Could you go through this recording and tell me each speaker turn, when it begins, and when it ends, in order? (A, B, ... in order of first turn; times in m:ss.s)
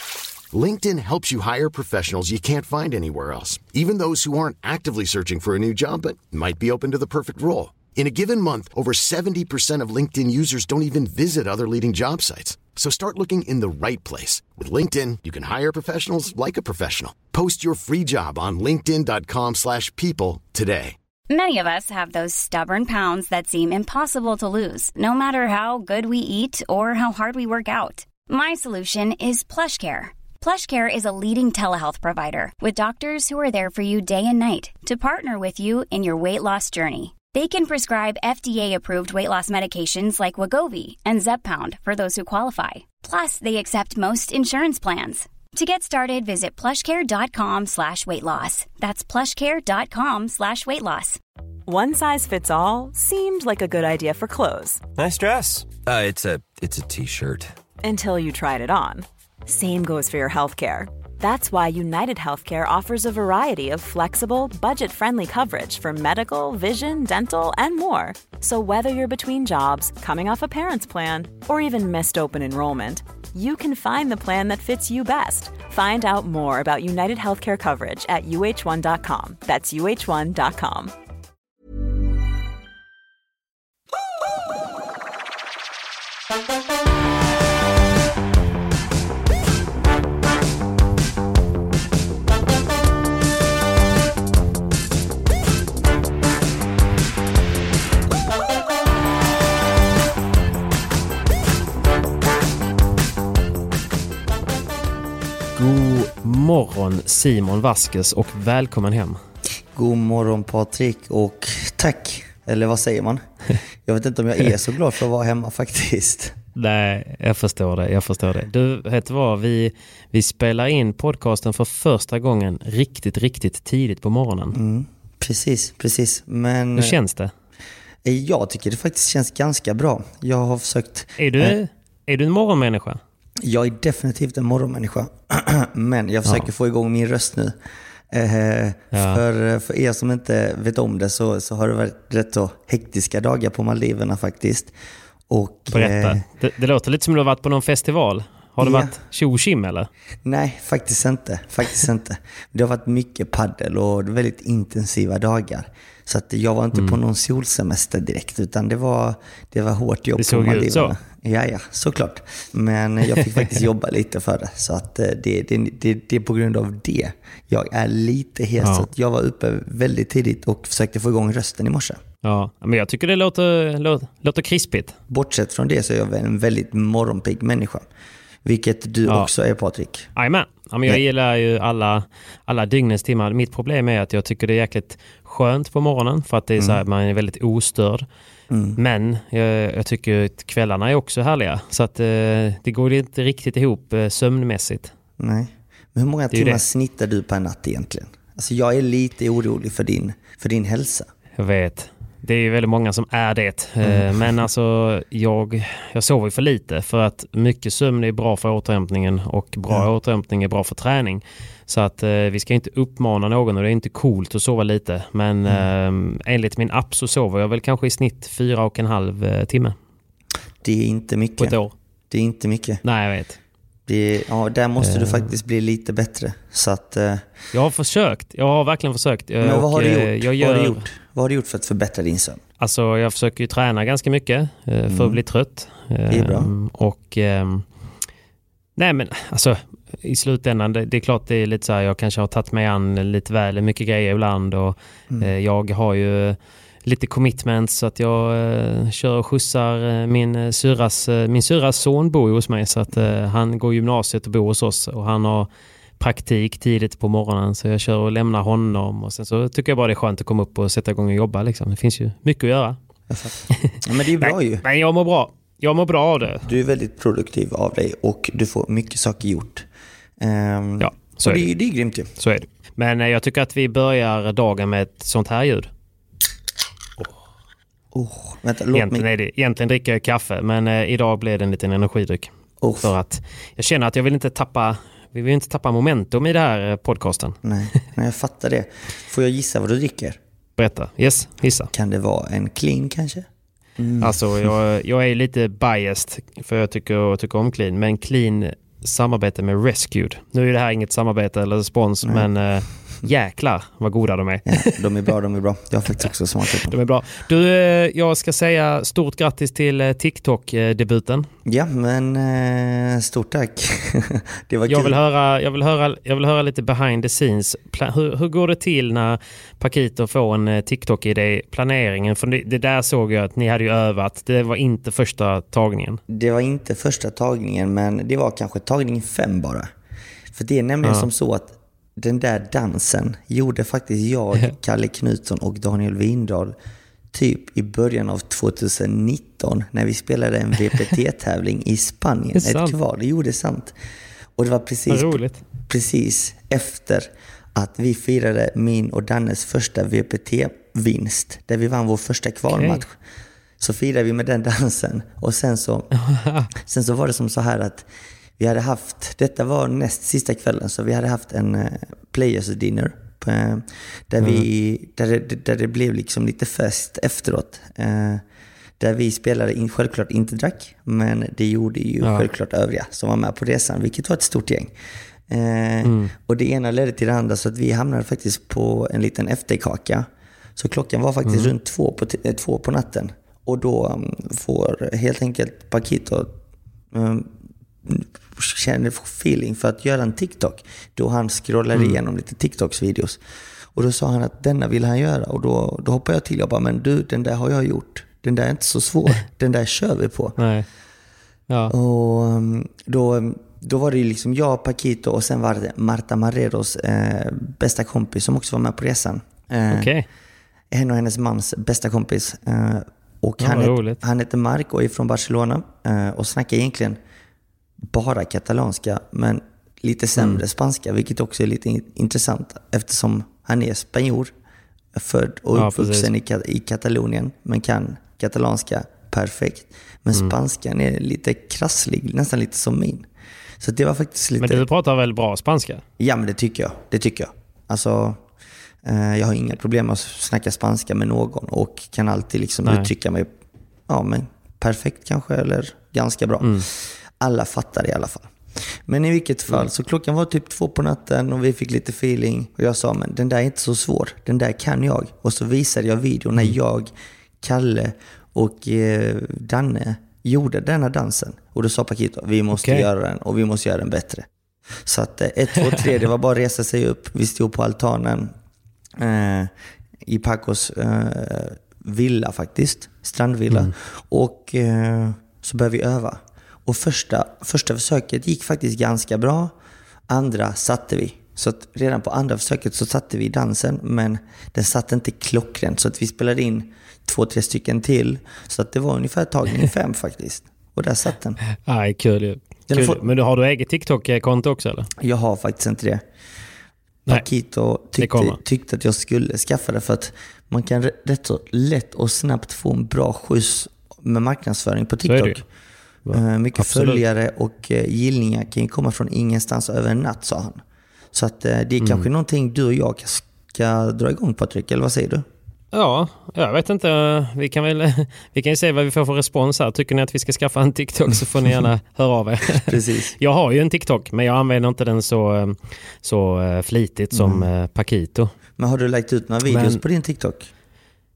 0:00.5-0:21.0 A
0:21.3-0:51.2 B
0:51.7-0:54.8 C
0:55.0-0:57.5 D
0:57.8-1:20.9 C
1:45.6-1:49.2 E
1:49.7-1:53.2 F
1:53.8-1:56.4 F
1:56.6-2:04.6 E
2:04.5-2:07.0 F
2:06.8-2:07.3 E
2:08.0-2:11.6 F
2:11.2-2:13.0 E
2:13.4-2:17.6 F
2:18.1-2:24.7 F
2:18.9-2:19.2 E
2:25.3-2:26.2 F
2:25.7-2:29.9 E
2:28.6-2:28.9 F
2:30.2-2:52.0 F
2:40.2-2:41.0 E
2:48.6-2:48.9 E
2:52.2-2:55.0 E
2:55.1-2:57.9 F
2:58.4-3:00.1 F
2:59.1-2:59.3 E
3:00.2-3:08.1 E
3:08.5-3:08.8 F
3:08.8-3:14.9 E
3:15.2-3:21.1 F
3:16.3-3:16.6 E
3:21.4-3:39.8 E
3:23.8-3:24.1 F
3:40.6-3:41.6 F
3:41.4-3:41.7 E
3:42.1-3:42.8 F
3:42.8-3:43.4 E
3:43.9-3:47.3 F
3:44.8-3:45.3 E
3:47.5-3:50.8 E
3:49.4-3:52.4 F
3:52.6-3:57.6 E
3:54.9-3:55.2 F
3:56.1-3:56.5 F
3:58.8-4:22.8 E
4:23.1-4:24.6 F
4:23.5-4:26.5 E
4:26.5-4:29.7 F
4:30.2-4:32.1 F
4:30.8-4:31.5 E
4:32.2-4:35.7 E
4:37.9-4:39.1 F
4:38.7-4:47.4 E
4:42.6-4:42.9 F
4:47.4-4:50.2 F
4:50.6-4:51.7 E
4:51.7-4:54.2 F
4:54.0-5:04.9 E
5:04.5-5:06.8 F
5:06.6-5:11.3 E
5:11.4-5:15.0 F
5:14.7-5:26.0 E
5:26.1-5:29.7 F
5:30.3-5:36.6 F
5:37.1-5:43.8 F
5:42.4-5:42.8 E
5:44.4-5:53.0 F
5:44.9-5:45.4 E
5:52.5-5:52.8 E
5:53.6-5:55.9 F
5:56.0-5:56.5 E
5:56.6-5:57.9 F
5:58.4-6:08.2 F
6:04.2-6:04.5 E
6:08.8-6:14.7 F
6:12.0-6:12.3 E
6:15.3-6:26.3 F
6:15.8-6:16.1 E
6:21.3-6:21.5 E
6:26.9-6:27.3 F
6:27.8-6:33.2 F
6:33.8-6:40.4 F
6:40.4-6:40.7 E
6:41.7-6:49.9 F
6:49.7-6:50.1 E
6:50.7-6:57.0 F
6:53.4-6:54.0 E
6:57.8-7:04.3 F
7:05.0-7:13.1 F
7:05.6-7:06.1 E
7:13.6-7:14.7 F
7:14.4-7:15.8 E
7:16.0-7:18.2 F
7:18.8-7:23.3 F
7:22.6-7:22.9 E
7:23.9-7:28.3 F
7:26.4-7:26.7 E
7:28.8-7:44.3 F
7:42.6-7:42.9 E
7:44.8-7:48.3 F
7:49.0-7:49.5 F
7:50.0-7:59.6 F
8:00.1-8:11.4 F
8:11.7-8:14.9 E
8:12.7-8:13.0 F
8:15.0-8:16.0 F
8:17.1-8:25.4 F
8:18.0-8:18.4 E
8:25.0-8:25.4 E
8:26.1-8:27.0 E
8:26.1-8:30.6 F
8:31.1-8:35.3 F
8:31.8-8:32.1 E
8:35.7-8:48.3 E
8:42.6-8:43.2 F
8:47.1-8:47.5 F
8:48.6-8:50.5 F
8:49.5-8:49.8 E